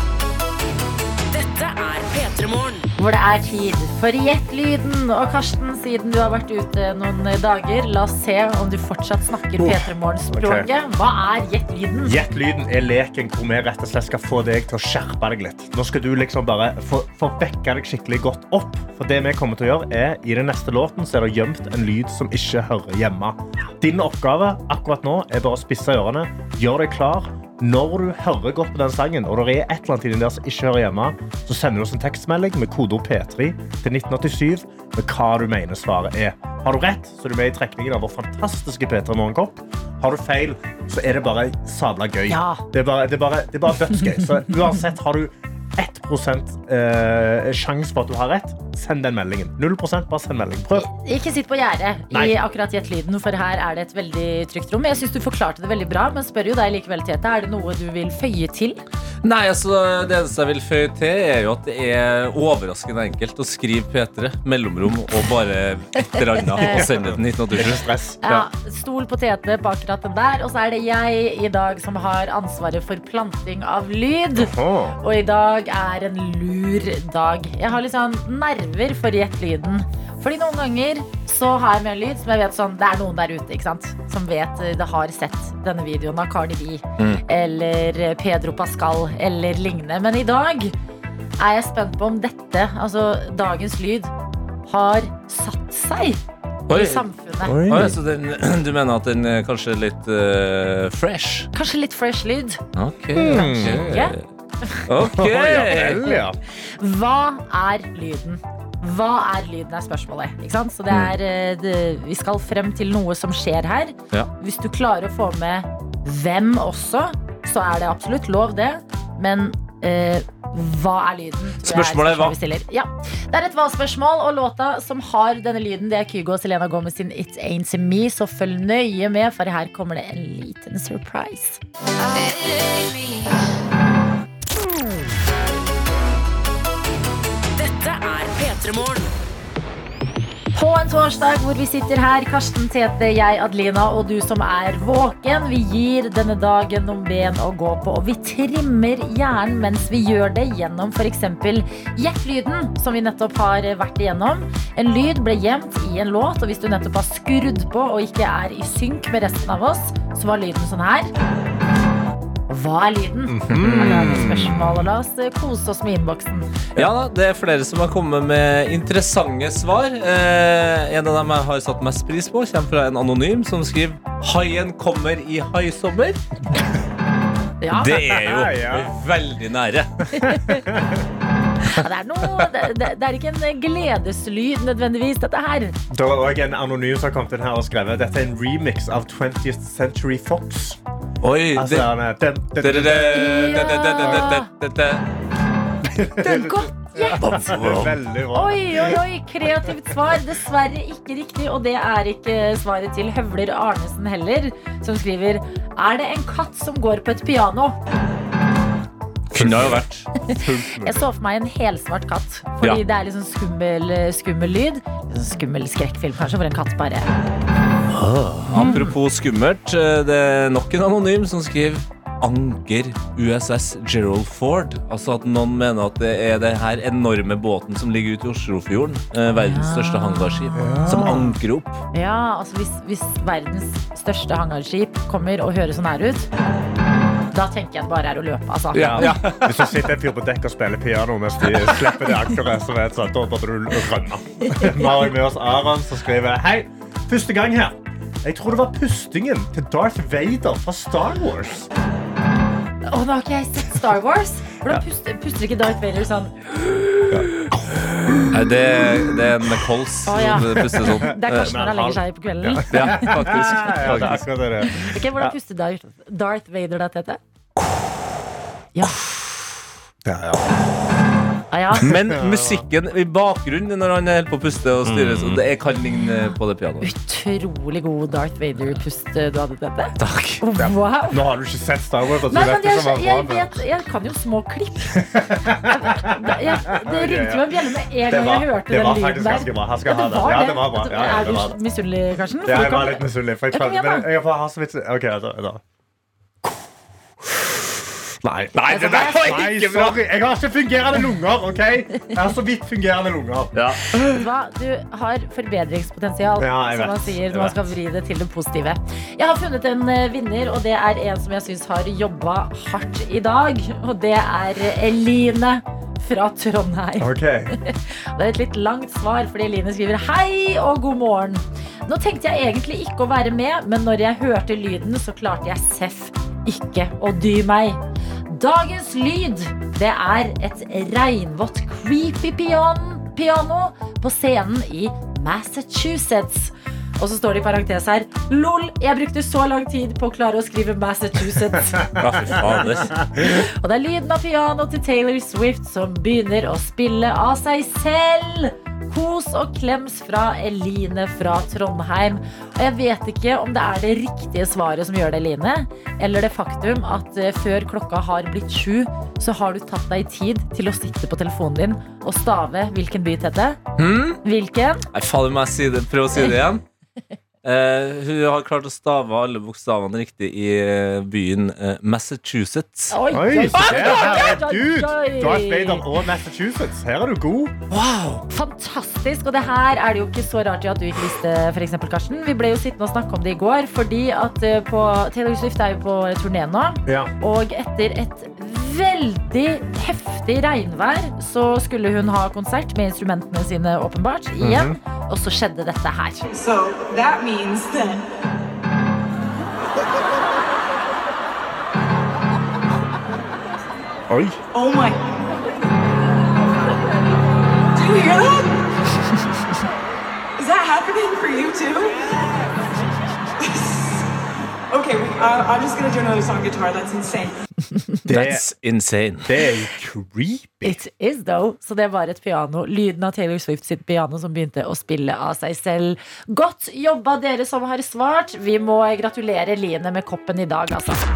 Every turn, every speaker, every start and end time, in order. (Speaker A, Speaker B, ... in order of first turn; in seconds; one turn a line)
Speaker A: 1.3-2.9
Speaker B: 3.0-12.2
Speaker C: 9.6-10.7
Speaker C: 12.0-50.9
Speaker B: 42.3-42.6
Speaker B: 50.7-58.8
Speaker C: 52.1-52.4
Speaker D: 59.2-68.4
Speaker C: 66.6-68.2
Speaker B: 68.2-90.7
Speaker C: 74.3-75.0
Speaker B: 91.4-94.1
Speaker B: 94.7-97.9
Speaker D: 96.7-97.0
Speaker C: 97.4-98.0
Speaker D: 97.6-101.5
Speaker B: 101.5-102.6
Speaker D: 102.8-104.2
Speaker C: 103.2-104.0
Speaker B: 103.2-104.1
Speaker D: 104.9-106.0
Speaker C: 105.1-106.4
Speaker B: 105.7-106.2
Speaker B: 106.8-131.6
Speaker D: 121.6-122.4
Speaker A: 132.2-133.2
Speaker A: 137.6-139.1
Speaker B: 140.5-161.1
Speaker B: 162.5-166.5
Speaker C: 163.3-164.8
Speaker D: 163.5-164.6
Speaker D: 166.8-176.2
Speaker B: 177.6-178.0
Speaker D: 177.7-180.0
Speaker C: 178.1-178.9
Speaker B: 180.1-180.6
Speaker C: 180.2-181.0
Speaker B: 181.6-185.8
Speaker C: 185.9-190.8
Speaker D: 191.2-191.9
Speaker C: 191.5-194.3
Speaker D: 192.6-195.0
Speaker B: 193.1-194.5
Speaker C: 195.8-199.0
Speaker B: 196.2-197.2
Speaker D: 197.2-198.0
Speaker B: 198.3-207.8
Speaker C: 209.3-211.1
Speaker D: 209.3-210.1
Speaker B: 210.3-217.1
Speaker D: 217.9-231.8
Speaker B: 218.5-218.9
Speaker B: 229.4-231.4
Speaker C: 230.6-231.3
Speaker B: 231.9-236.3
Speaker B: 237.3-239.2
Speaker D: 238.7-239.8
Speaker C: 238.8-251.7
Speaker B: 244.5-245.1
Speaker B: 252.9-256.3
Speaker C: 257.1-258.5
Speaker D: 258.3-261.6
Speaker B: 260.1-263.6
Speaker C: 260.2-265.3
Speaker D: 262.7-264.3
Speaker B: 264.6-267.2
Speaker B: 268.8-269.3
Speaker C: 270.0-270.6
Speaker B: 271.5-271.9
Speaker D: 271.8-276.9
Speaker C: 271.8-272.6
Speaker C: 274.8-275.4
Speaker B: 276.8-281.2
Speaker D: 280.0-280.4
Speaker C: 280.6-283.6
Speaker B: 282.3-294.1
Speaker C: 285.0-291.6
Speaker C: 292.4-295.6
Speaker C: 297.2-297.6
Speaker C: 298.2-304.0
Speaker D: 298.5-300.0
Speaker B: 298.7-299.3
Speaker D: 303.5-303.8
Speaker B: 304.1-341.9
Speaker C: 306.4-307.2
Speaker C: 317.0-317.5
Speaker C: 342.0-343.4
Speaker D: 342.0-342.9
Speaker B: 343.2-363.6
Speaker D: 363.8-364.2
Speaker B: 364.2-364.8
Speaker D: 364.9-366.6
Speaker D: 367.4-372.9
Speaker B: 372.9-375.8
Speaker C: 373.1-377.6
Speaker D: 373.5-374.2
Speaker D: 377.7-378.2
Speaker B: 378.3-396.3
Speaker C: 386.9-387.1
Speaker C: 394.4-394.8
Speaker E: 396.3-398.1
Speaker C: 404.1-404.4
Speaker E: 404.5-405.2
Speaker E: 407.8-408.6
Speaker E: 410.4-412.4
Speaker E: 413.4-414.0
Speaker E: 414.7-417.4
Speaker C: 418.1-418.4
Speaker D: 418.1-419.3
Speaker C: 419.2-420.8
Speaker B: 420.6-431.0